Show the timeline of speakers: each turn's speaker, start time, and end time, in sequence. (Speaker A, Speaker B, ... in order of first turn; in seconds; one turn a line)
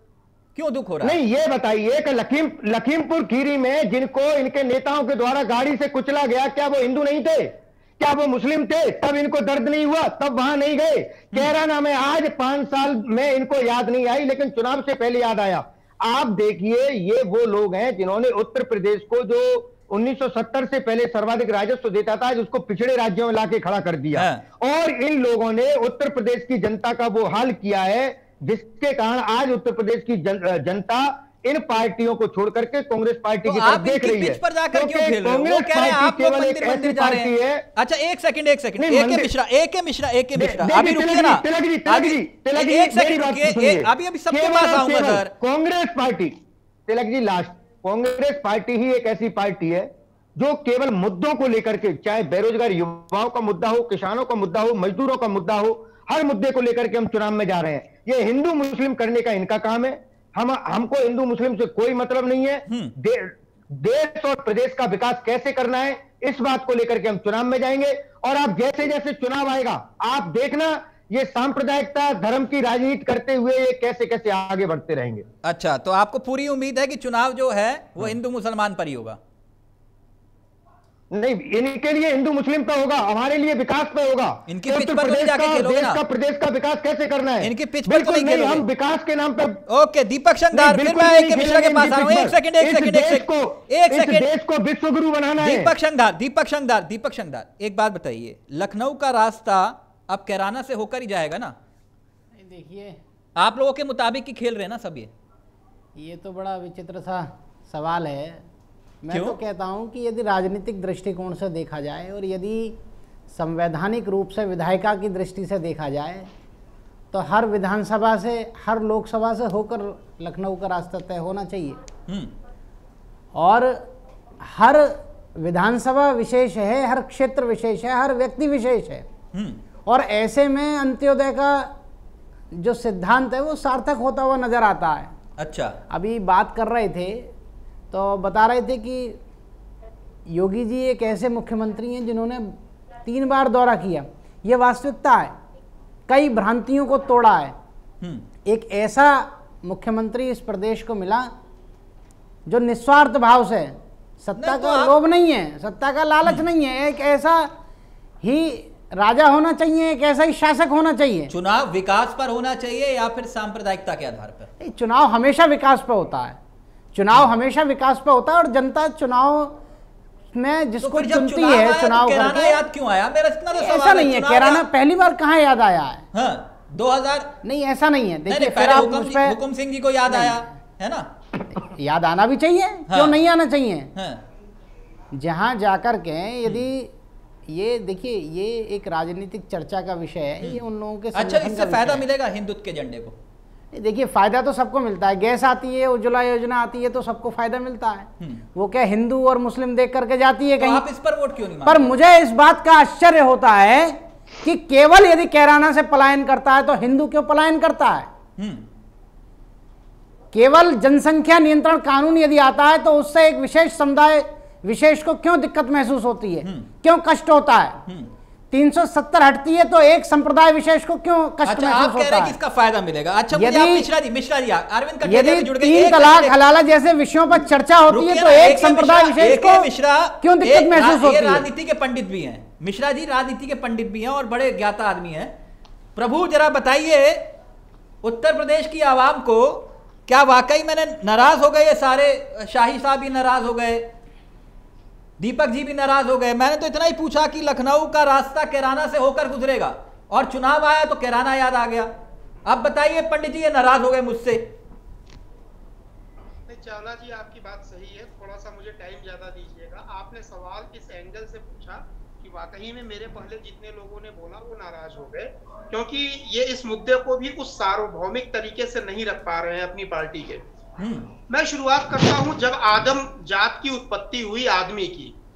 Speaker A: 0.6-1.2
Speaker B: 1.0-37.6
Speaker A: 24.1-24.4
Speaker A: 33.5-45.3
Speaker B: 38.8-39.3
Speaker B: 40.3-75.3
Speaker A: 62.7-63.0
Speaker A: 75.5-79.2
Speaker B: 81.1-89.6
Speaker A: 84.5-86.0
Speaker A: 87.4-88.7
Speaker A: 89.7-94.3
Speaker B: 90.5-95.7
Speaker A: 95.4-101.6
Speaker C: 102.3-103.0
Speaker A: 103.4-105.1
Speaker C: 106.0-108.5
Speaker C: 109.0-112.8
Speaker A: 109.1-109.4
Speaker C: 113.3-116.3
Speaker C: 117.1-121.8
Speaker C: 123.3-123.9
Speaker C: 124.4-129.1
Speaker A: 129.3-129.6
Speaker C: 129.9-131.7
Speaker C: 132.5-135.1
Speaker A: 135.4-135.8
Speaker C: 135.9-137.3
Speaker C: 137.9-139.2
Speaker C: 140.3-145.4
Speaker C: 146.1-147.6
Speaker A: 148.0-148.3
Speaker C: 148.4-151.3
Speaker C: 152.5-157.5
Speaker A: 154.3-155.0
Speaker C: 158.2-161.3
Speaker A: 161.3-164.5
Speaker C: 164.6-166.4
Speaker C: 166.9-169.6
Speaker C: 170.3-172.7
Speaker A: 170.8-174.7
Speaker C: 173.5-176.1
Speaker A: 176.1-177.4
Speaker C: 177.4-179.4
Speaker A: 178.3-181.1
Speaker C: 180.1-180.4
Speaker C: 181.6-183.9
Speaker A: 182.9-183.2
Speaker A: 183.9-184.2
Speaker C: 185.1-186.9
Speaker C: 187.5-192.0
Speaker A: 191.1-193.2
Speaker C: 193.7-200.9
Speaker A: 200.6-201.9
Speaker C: 201.7-208.1
Speaker A: 208.4-208.7
Speaker C: 210.3-217.8
Speaker A: 216.4-216.7
Speaker C: 218.5-222.4
Speaker A: 221.4-226.4
Speaker C: 223.3-223.9
Speaker C: 225.0-229.7
Speaker A: 227.9-235.3
Speaker C: 230.2-231.4
Speaker A: 236.0-237.3
Speaker A: 238.0-243.9
Speaker A: 245.2-251.9
Speaker A: 252.5-254.5
Speaker D: 256.5-270.4
Speaker A: 270.8-271.1
Speaker D: 271.3-275.2